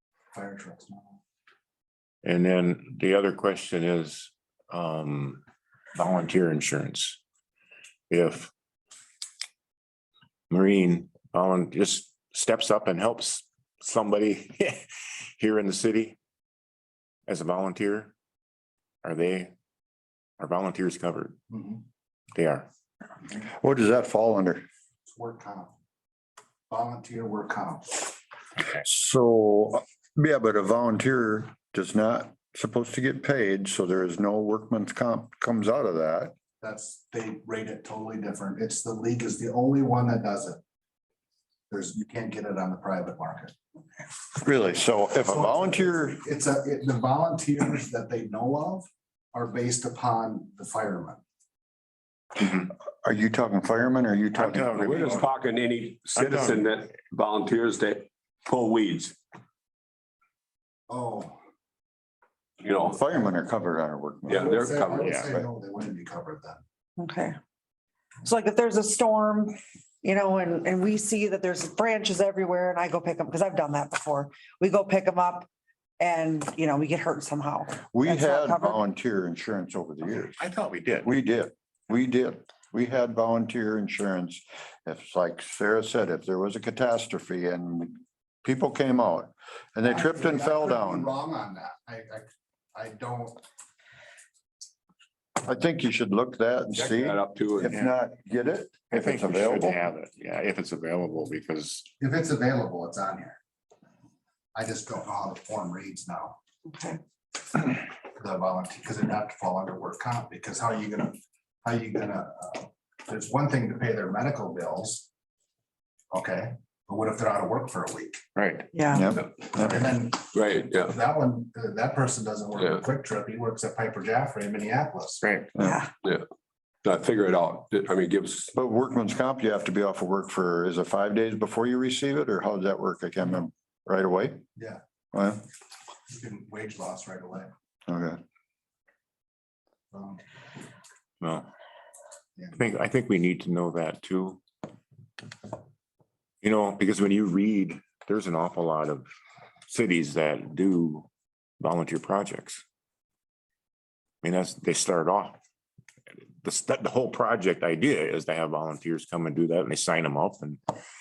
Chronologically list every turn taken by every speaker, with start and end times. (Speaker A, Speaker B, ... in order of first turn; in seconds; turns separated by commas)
Speaker A: 0.3-1.2, Speaker B: 2.2-5.4, Speaker B: 5.9-7.2, Speaker B: 8.1-8.5, Speaker B: 10.5-16.2, Speaker B: 17.3-18.1, Speaker B: 19.0-19.5, Speaker B: 20.4-21.4, Speaker A: 21.5-21.8, Speaker B: 22.3-22.7, Speaker C: 23.3-24.6, Speaker A: 25.1-25.7, Speaker A: 26.7-28.1, Speaker C: 28.8-36.3, Speaker A: 36.6-40.6, Speaker A: 41.7-43.5, Speaker C: 44.4-46.2, Speaker A: 45.2-51.2, Speaker C: 52.4-55.0, Speaker B: 54.3-55.2, Speaker D: 54.7-59.1, Speaker B: 56.1-56.6, Speaker A: 60.9-61.4, Speaker D: 62.6-63.0, Speaker C: 62.8-64.5, Speaker D: 64.3-65.2, Speaker A: 64.3-66.6, Speaker E: 67.0-67.3, Speaker E: 68.2-75.5, Speaker E: 76.0-78.8, Speaker C: 77.8-80.3, Speaker B: 80.0-81.1, Speaker C: 81.0-91.1, Speaker A: 89.8-93.4, Speaker C: 95.4-99.8, Speaker D: 96.7-97.8, Speaker B: 98.9-101.9, Speaker A: 102.0-103.4, Speaker A: 104.5-106.4, Speaker E: 106.7-107.0, Speaker A: 108.0-115.1, Speaker A: 116.1-118.2, Speaker B: 118.3-118.7, Speaker E: 118.7-119.1, Speaker C: 118.9-119.8, Speaker A: 119.5-125.2, Speaker D: 120.3-120.9, Speaker B: 125.2-125.5, Speaker E: 125.6-125.9, Speaker D: 126.8-128.5, Speaker C: 128.5-134.4, Speaker A: 134.6-134.8, Speaker C: 135.1-135.4, Speaker A: 136.1-137.5, Speaker C: 137.9-138.2, Speaker A: 139.9-140.2, Speaker B: 141.2-141.5, Speaker B: 142.5-144.4, Speaker B: 146.4-149.1, Speaker B: 149.7-151.1, Speaker B: 151.6-152.6, Speaker B: 154.2-155.4, Speaker B: 156.1-160.6